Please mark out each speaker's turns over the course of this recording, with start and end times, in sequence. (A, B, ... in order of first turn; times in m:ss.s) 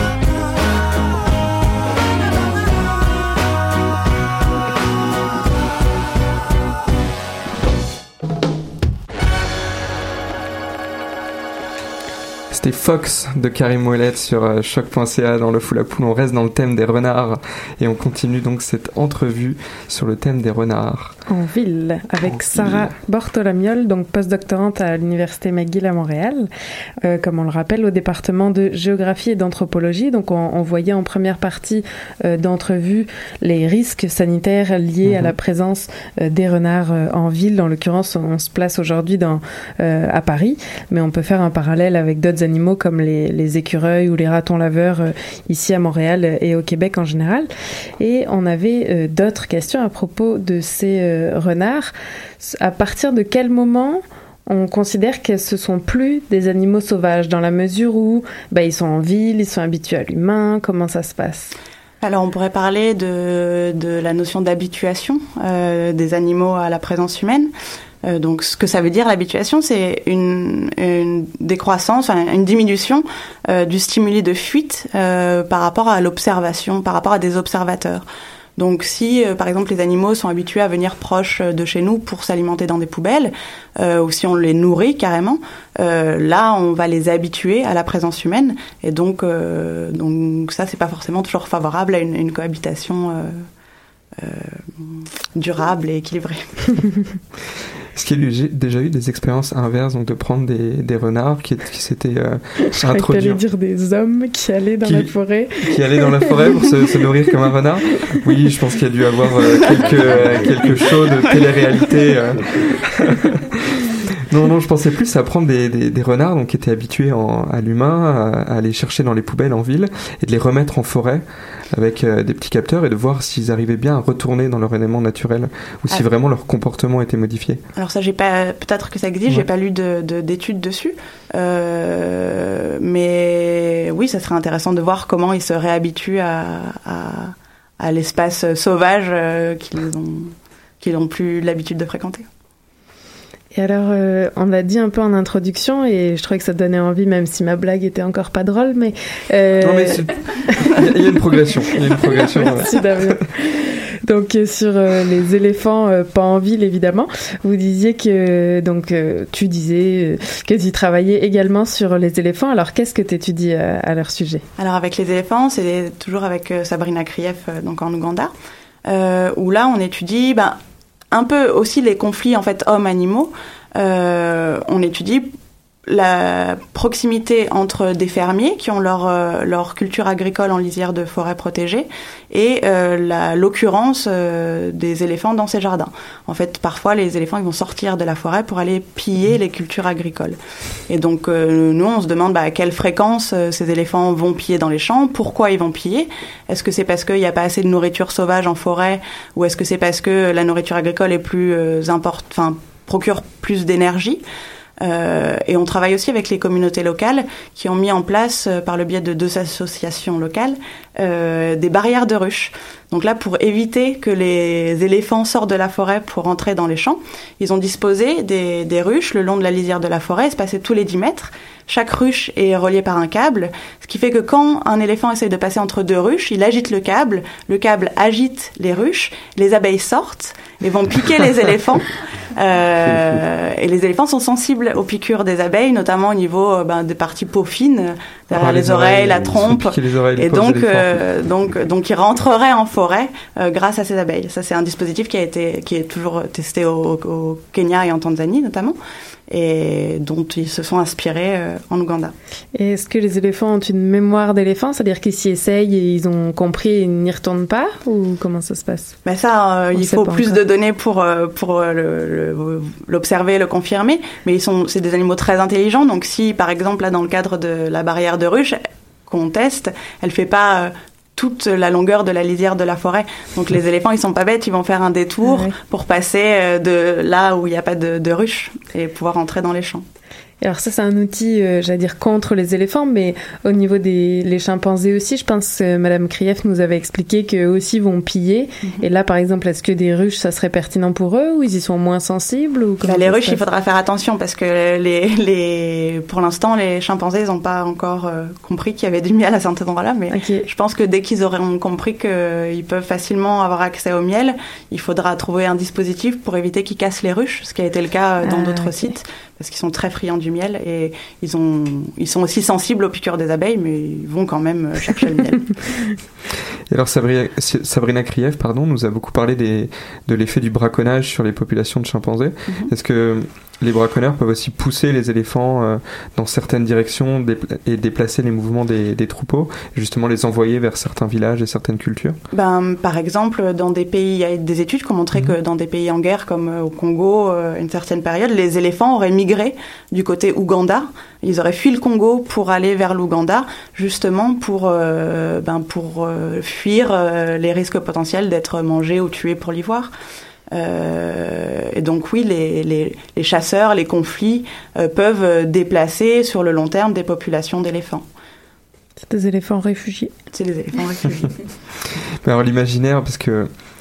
0:12.5-0:21.2 A
0:21.3-0:26.5 B
0:22.5-0:22.9 A
0:27.0-0:47.5 B
0:35.0-0:35.3 A
0:48.0-1:01.6 B
1:02.0-1:07.5 C
1:08.0-1:18.0 C
1:18.6-1:33.4 C
1:34.2-1:36.8 C
1:37.9-1:43.4 A
1:42.8-1:47.0 B
1:44.8-1:53.4 A
1:54.3-2:07.6 A
2:07.8-2:22.2 C
2:23.5-2:30.8 B
2:29.6-2:33.2 A
2:31.8-2:44.4 B
2:44.6-2:48.3 C
2:48.9-2:50.6 C
2:51.1-2:55.3 C
2:55.9-3:10.4 C
3:10.9-3:24.2 C
3:24.8-4:08.8 C
3:58.3-4:01.1 A
4:09.3-4:12.1 C
4:12.6-4:19.0 B
4:19.0-4:39.8 C
4:19.7-4:20.4 B
4:35.2-4:35.5 B
4:40.4-4:53.4 B
4:52.8-5:15.5 C
5:00.1-5:00.5 B
5:08.2-5:08.9 B
5:16.7-5:32.2 A
5:32.3-5:49.9 C
5:50.5-5:58.0 C
5:59.0-6:00.1 B
6:00.3-6:01.4 C
6:02.2-6:03.5 A